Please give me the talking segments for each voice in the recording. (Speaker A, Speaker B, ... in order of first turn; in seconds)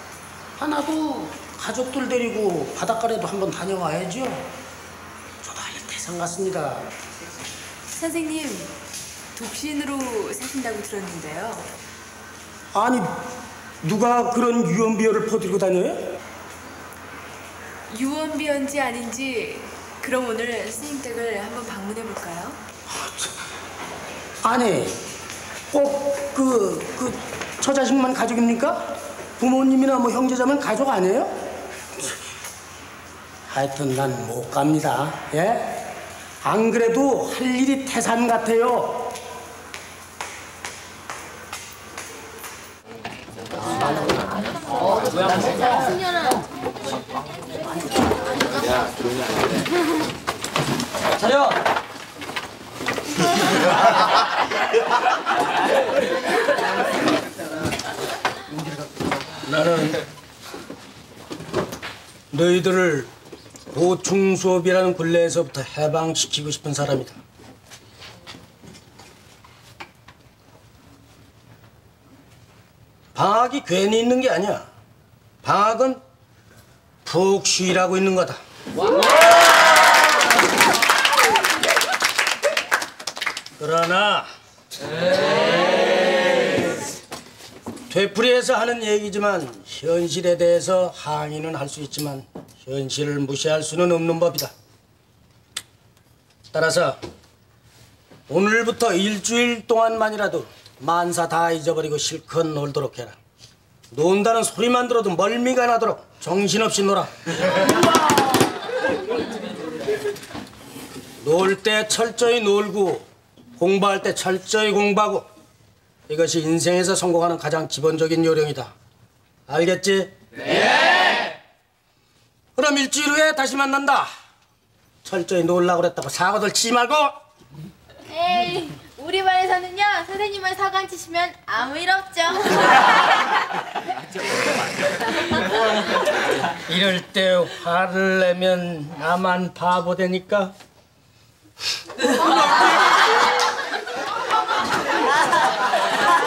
Speaker A: 0.6-4.5, 5.4-6.9, 12.7-13.2, 13.8-16.2, 22.9-23.3, 24.4-25.0, 25.7-32.1, 33.5-35.9, 36.4-39.1, 59.4-60.0, 62.3-63.1, 63.7-67.2, 73.1-74.7, 75.4-76.0, 77.0-78.4, 83.6-84.3, 87.9-94.5, 96.5-97.0, 98.3-103.2, 103.9-107.6, 111.2-113.1, 113.6-115.3, 116.1-118.7, 119.5-120.1, 122.5-124.1, 125.0-127.2, 136.6-140.5, 142.0-142.7
Speaker B: 7.9-8.8, 9.4-11.7, 17.9-22.6
Speaker C: 45.5-46.4, 128.1-132.1